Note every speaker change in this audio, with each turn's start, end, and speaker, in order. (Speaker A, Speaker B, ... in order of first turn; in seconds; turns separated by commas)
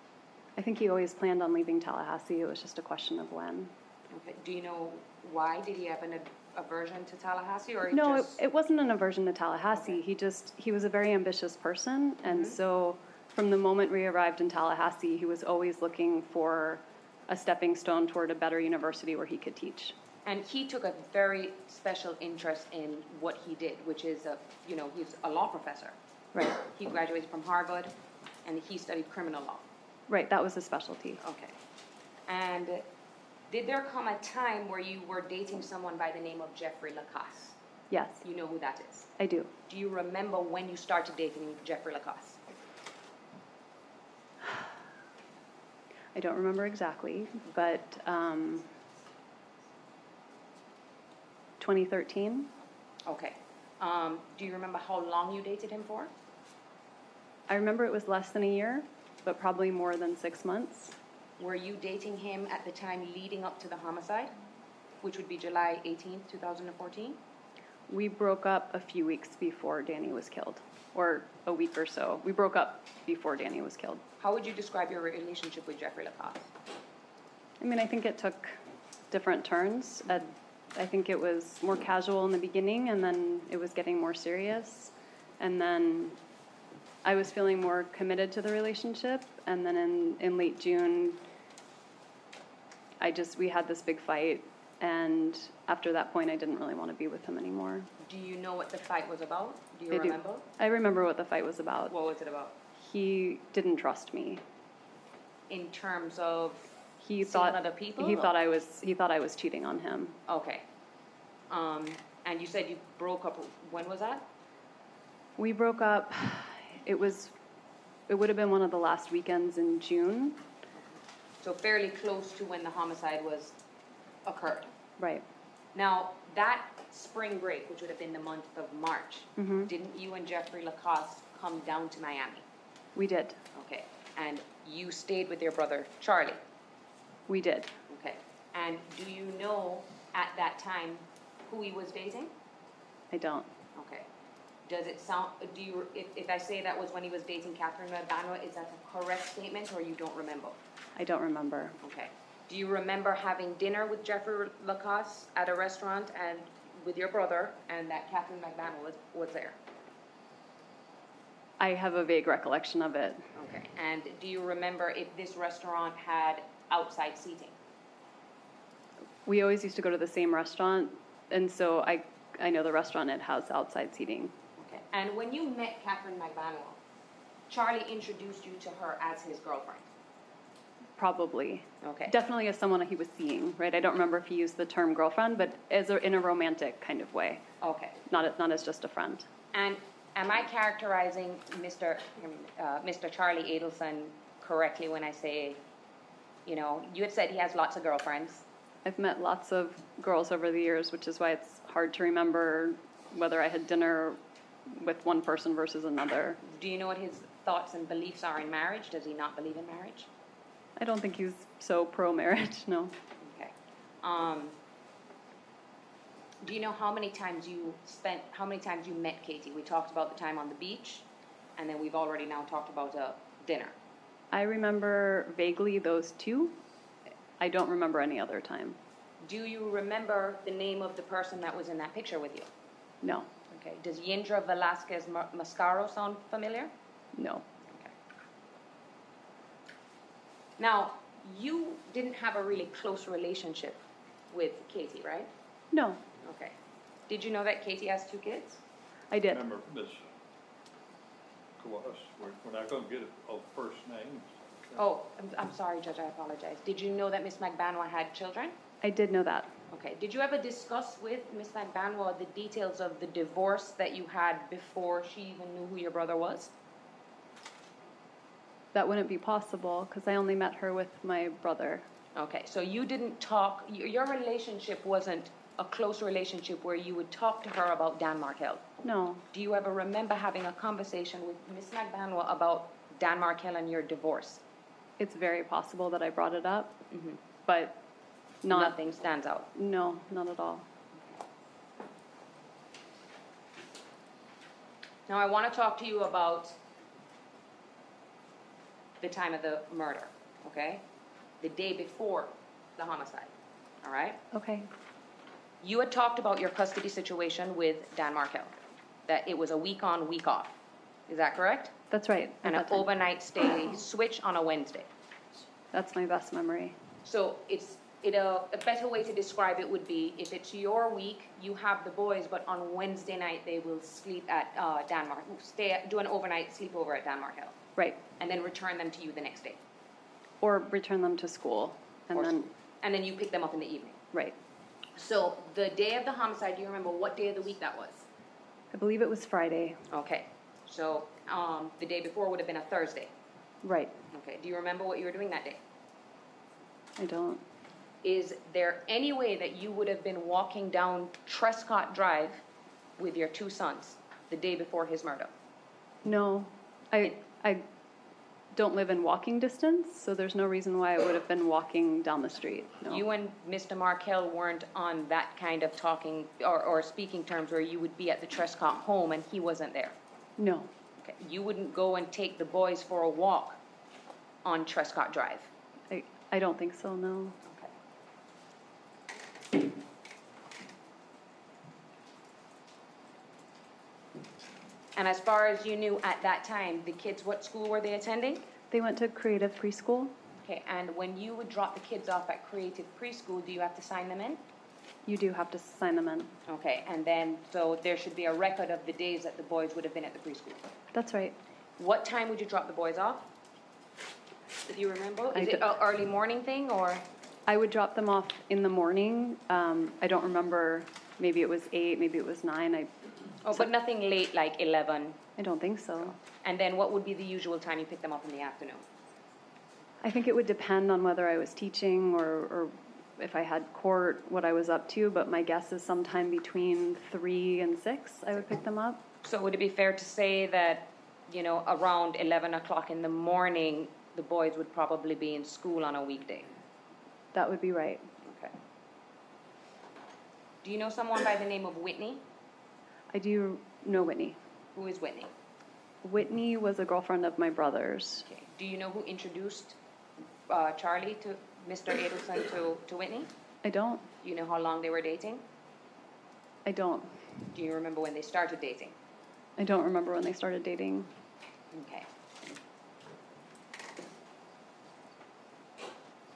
Speaker A: 0.6-3.7, Speaker B: 4.1-8.3, Speaker A: 7.9-19.9, Speaker B: 12.3-12.6, Speaker B: 20.2-26.0, Speaker A: 26.3-26.6, Speaker B: 26.6-27.9, Speaker B: 28.4-29.6, Speaker A: 30.1-31.2, Speaker B: 31.2-31.6, Speaker B: 32.3-32.8, Speaker B: 33.5-37.5, Speaker A: 37.9-38.2, Speaker B: 38.2-39.1, Speaker A: 39.2-39.5, Speaker B: 39.7-42.4, Speaker A: 46.1-48.7, Speaker A: 51.6-52.5, Speaker B: 53.0-56.1, Speaker A: 57.5-60.9, Speaker B: 61.4-64.3, Speaker B: 65.0-67.2, Speaker A: 67.9-74.0, Speaker B: 74.2-76.5, Speaker A: 77.6-78.6, Speaker A: 79.1-86.2, Speaker A: 87.0-91.2, Speaker A: 93.0-97.9, Speaker B: 98.0-100.5, Speaker A: 99.9-101.9, Speaker B: 101.9-102.6, Speaker A: 102.8-104.4, Speaker B: 105.5-106.7, Speaker A: 107.0-110.2, Speaker B: 107.2-108.3, Speaker B: 110.3-110.6, Speaker B: 111.5-114.3, Speaker A: 115.4-117.3, Speaker A: 118.1-120.4, Speaker B: 120.8-123.5, Speaker B: 124.2-124.7, Speaker A: 125.0-125.2, Speaker B: 125.7-132.4, Speaker A: 129.4-129.7, Speaker A: 132.9-133.4, Speaker B: 133.5-136.4, Speaker A: 137.3-137.7, Speaker B: 137.9-142.3, Speaker A: 143.1-143.5, Speaker B: 143.7-144.1, Speaker B: 144.6-150.6, Speaker A: 150.9-151.8, Speaker B: 151.8-159.6, Speaker A: 161.6-163.2, Speaker B: 163.3-167.6, Speaker A: 169.2-174.3, Speaker B: 174.6-176.8, Speaker B: 177.5-179.8, Speaker A: 180.9-187.4, Speaker B: 181.8-182.2, Speaker B: 187.6-188.0, Speaker A: 188.1-189.3, Speaker B: 189.5-195.6, Speaker B: 196.4-198.4, Speaker A: 198.8-206.4, Speaker B: 206.4-210.1, Speaker A: 210.8-212.9, Speaker B: 213.2-214.6, Speaker B: 216.4-221.1, Speaker B: 221.6-223.8, Speaker A: 224.3-226.6, Speaker A: 227.4-228.8, Speaker B: 229.2-232.5, Speaker A: 233.0-233.3, Speaker B: 233.5-236.7, Speaker A: 237.1-237.4, Speaker B: 237.7-237.9, Speaker B: 240.6-245.3, Speaker A: 245.7-246.0, Speaker B: 246.2-246.6, Speaker B: 247.1-248.6, Speaker A: 249.1-249.4, Speaker C: 249.3-250.1, Speaker C: 251.6-254.8, Speaker B: 254.8-258.6, Speaker A: 258.8-259.5, Speaker B: 259.7-266.5, Speaker A: 268.7-271.9, Speaker B: 272.1-278.7, Speaker A: 278.8-279.2, Speaker B: 279.3-284.4, Speaker A: 285.0-286.8, Speaker B: 286.9-287.2, Speaker A: 287.4-287.8, Speaker A: 288.4-288.8, Speaker B: 288.4-289.5, Speaker A: 289.5-290.7, Speaker B: 295.1-296.6, Speaker B: 299.0-300.9, Speaker B: 301.4-303.3, Speaker B: 303.8-304.2, Speaker A: 304.3-304.7, Speaker B: 305.6-308.5, Speaker B: 309.1-310.6, Speaker B: 311.1-311.8, Speaker A: 311.9-312.9, Speaker B: 312.4-314.9, Speaker A: 315.7-316.8, Speaker B: 317.0-327.6, Speaker A: 327.8-328.0, Speaker B: 328.2-329.6, Speaker A: 330.4-332.5, Speaker B: 332.1-334.0, Speaker B: 334.9-338.1, Speaker A: 338.7-339.8, Speaker B: 339.9-343.1, Speaker A: 343.6-343.9, Speaker B: 344.1-345.6, Speaker A: 347.0-347.4, Speaker B: 348.0-352.4, Speaker B: 353.0-355.3, Speaker A: 356.0-357.6, Speaker A: 358.5-363.0, Speaker B: 362.9-370.0, Speaker A: 370.4-370.7, Speaker B: 371.0-373.6, Speaker B: 374.4-375.5, Speaker A: 375.9-377.4, Speaker B: 377.4-377.7, Speaker B: 384.9-388.5, Speaker A: 388.7-390.2, Speaker B: 390.4-394.4, Speaker A: 395.0-396.3, Speaker B: 396.5-400.7, Speaker A: 400.9-401.4, Speaker B: 401.8-403.3, Speaker B: 404.6-407.1, Speaker A: 405.3-405.6, Speaker A: 407.5-412.9, Speaker B: 413.4-415.2, Speaker A: 415.4-416.2, Speaker B: 416.4-418.9, Speaker A: 420.0-429.0, Speaker B: 429.2-436.5, Speaker A: 437.3-438.1, Speaker B: 438.2-438.5, Speaker B: 440.6-442.2, Speaker A: 443.1-444.4, Speaker B: 444.7-445.3, Speaker A: 446.0-448.3, Speaker B: 448.2-449.8, Speaker B: 450.5-453.3, Speaker A: 453.6-454.1, Speaker B: 454.2-455.4, Speaker A: 456.6-457.4, Speaker B: 457.5-459.0, Speaker A: 459.6-461.1, Speaker B: 461.7-462.1